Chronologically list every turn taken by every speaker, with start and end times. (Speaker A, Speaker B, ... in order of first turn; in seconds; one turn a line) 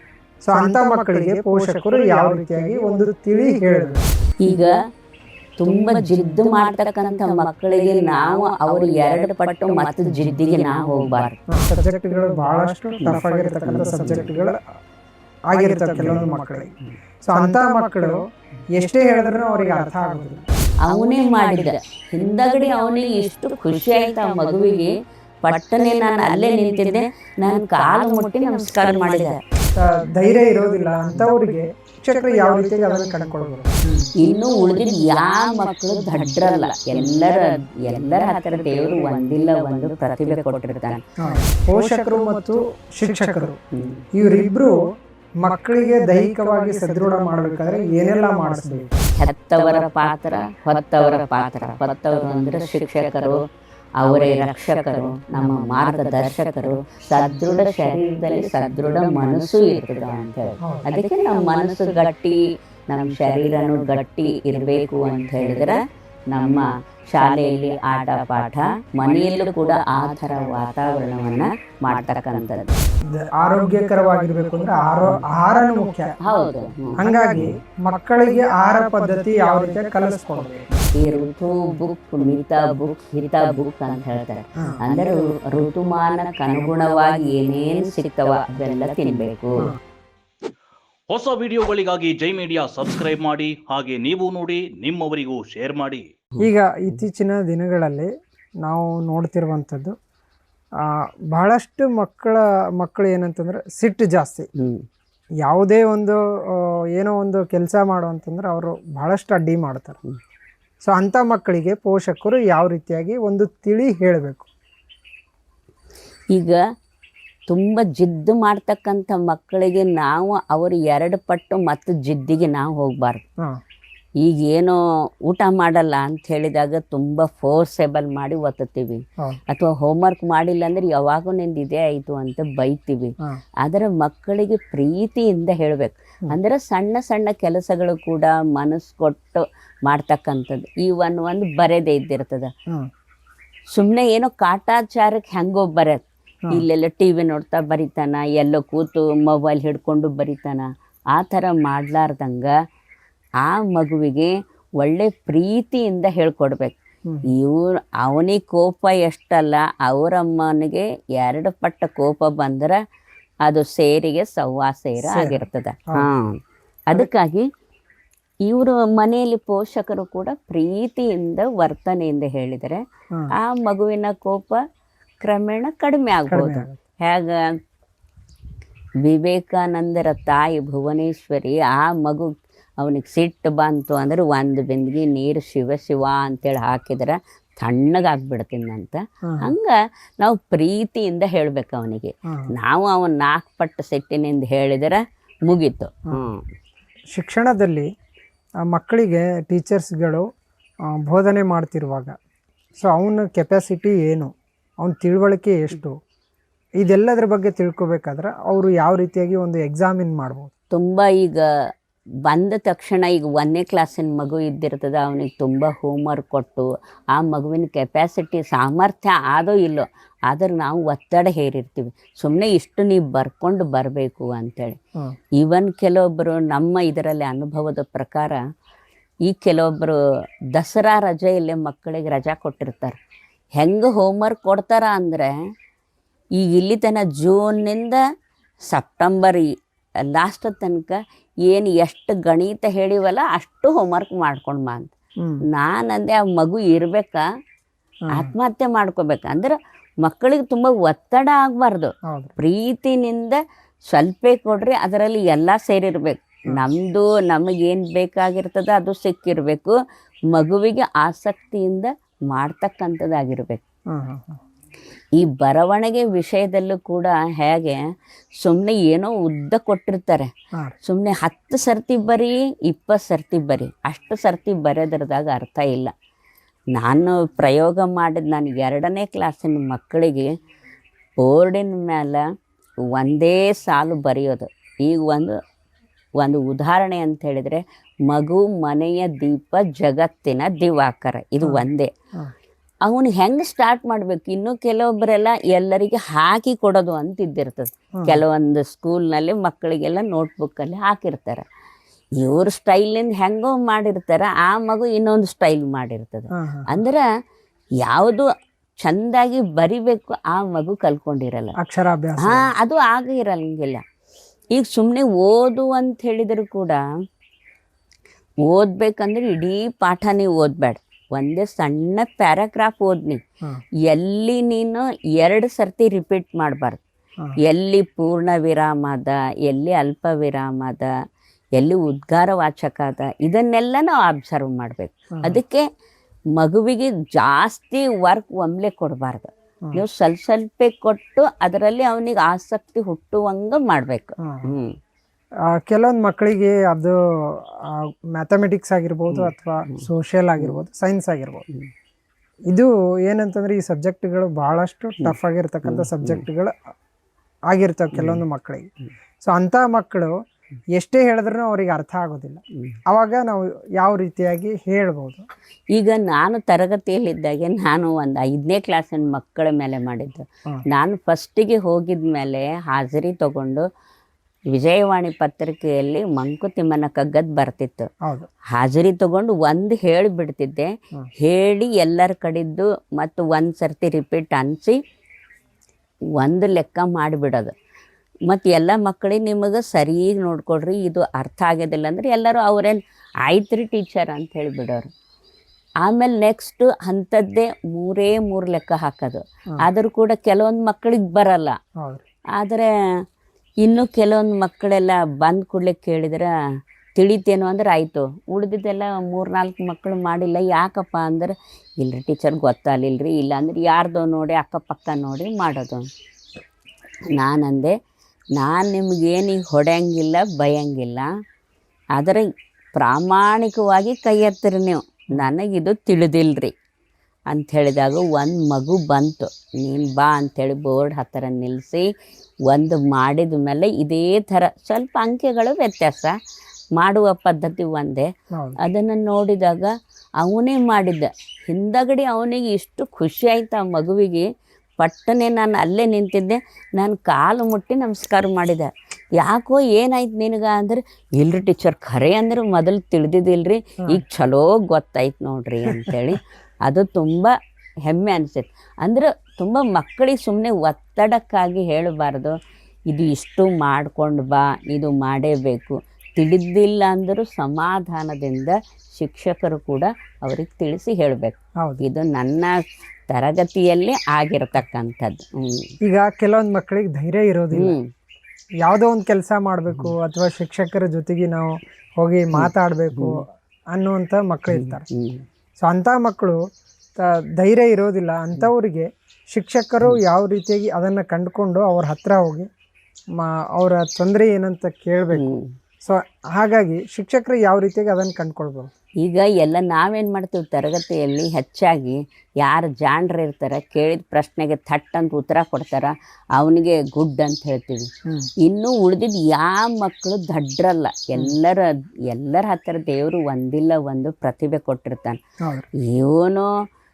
Speaker A: 0.4-4.0
Speaker B: 4.4-4.7
Speaker B: 5.6-11.4
Speaker A: 6.0-6.3
Speaker A: 11.5-14.6
Speaker B: 13.7-14.3
Speaker A: 15.5-16.7
Speaker B: 16.0-16.2
Speaker A: 17.2-18.2
Speaker A: 18.8-20.4
Speaker B: 20.9-29.4
Speaker A: 29.7-34.1
Speaker B: 34.2-41.0
Speaker A: 41.2-43.6
Speaker B: 43.7-44.0
Speaker A: 44.1-44.8
Speaker A: 45.4-49.0
Speaker B: 49.2-53.4
Speaker B: 54.0-65.8
Speaker A: 60.6-60.9
Speaker B: 66.3-72.7
Speaker A: 73.1-76.1
Speaker B: 76.2-77.5
Speaker A: 77.0-80.9
Speaker B: 80.9-89.7
Speaker C: 91.1-96.0
Speaker B: 96.3-97.0
Speaker A: 96.4-98.1
Speaker A: 98.6-99.9
Speaker A: 101.3-104.5
Speaker A: 105.4-110.0
Speaker A: 110.8-114.5
Speaker B: 116.3-116.6
Speaker B: 117.5-123.2
Speaker B: 124.2-133.1
Speaker B: 133.6-142.5
Speaker B: 143.7-152.5
Speaker B: 153.4-156.8
Speaker B: 157.3-162.8
Speaker B: 163.4-166.3
Speaker A: 165.0-166.1
Speaker B: 166.9-167.4
Speaker B: 168.5-172.8
Speaker B: 173.4-174.6
Speaker B: 175.2-177.5
Speaker A: 176.3-176.8
Speaker B: 179.0-196.4
Speaker A: 189.2-189.5
Speaker A: 197.2-197.9
Speaker A: 198.7-200.2
Speaker A: 200.9-202.1
Speaker A: 202.8-204.3
Speaker A: 204.8-206.0
Speaker A: 206.8-210.5
Speaker B: 210.7-211.4
Speaker B: 212.2-224.8
Speaker B: 225.4-228.4
Speaker B: 229.2-229.9
Speaker B: 230.5-232.9
Speaker B: 233.6-235.3
Speaker B: 236.4-238.0
Speaker B: 238.7-239.5
Speaker B: 240.0-244.9
Speaker B: 245.5-247.2
Speaker B: 248.1-253.4
Speaker A: 252.1-252.3
Speaker B: 253.9-259.8
Speaker B: 260.3-263.6
Speaker A: 263.9-264.4
Speaker B: 265.2-267.8
Speaker B: 268.4-270.3
Speaker B: 270.8-275.9
Speaker B: 276.7-280.3
Speaker B: 281.2-282.2
Speaker B: 282.9-285.4
Speaker B: 286.2-291.9
Speaker A: 291.4-292.3
Speaker B: 292.8-301.4
Speaker A: 297.9-298.2
Speaker B: 302.2-307.0
Speaker A: 306.3-306.7
Speaker B: 307.8-308.3
Speaker B: 308.8-311.6
Speaker A: 311.6-312.5
Speaker B: 312.2-313.8
Speaker B: 314.5-316.8
Speaker B: 318.4-323.2
Speaker B: 323.9-326.8
Speaker B: 327.4-330.9
Speaker B: 331.6-335.6
Speaker B: 336.4-344.7
Speaker A: 345.6-351.4
Speaker B: 349.1-349.8
Speaker A: 352.5-356.5
Speaker B: 355.0-356.2
Speaker A: 357.5-358.7
Speaker B: 357.9-358.2
Speaker A: 359.2-360.1
Speaker A: 360.7-365.2
Speaker B: 365.7-373.6
Speaker B: 374.5-377.9
Speaker B: 378.5-384.8
Speaker B: 386.2-387.5
Speaker B: 388.3-394.9
Speaker B: 395.8-401.6
Speaker B: 402.4-402.7
Speaker B: 403.6-406.3
Speaker B: 406.9-415.9
Speaker B: 417.1-417.7
Speaker B: 418.4-421.1
Speaker B: 421.9-426.5
Speaker B: 427.3-431.8
Speaker B: 432.5-436.1
Speaker B: 436.8-438.1
Speaker B: 438.6-439.7
Speaker B: 440.2-444.2
Speaker B: 444.8-448.7
Speaker B: 449.2-457.3
Speaker B: 457.9-462.4
Speaker B: 462.9-472.6
Speaker A: 471.6-471.9
Speaker B: 473.1-475.7
Speaker A: 475.8-477.8
Speaker B: 477.5-477.9
Speaker A: 478.6-483.2
Speaker B: 482.3-483.2
Speaker A: 483.7-484.8
Speaker B: 484.5-485.2
Speaker A: 485.6-486.4
Speaker A: 487.0-492.5
Speaker A: 493.1-495.3
Speaker B: 495.1-495.5
Speaker A: 495.8-498.7
Speaker B: 499.0-507.9
Speaker B: 508.4-515.2
Speaker B: 515.9-516.5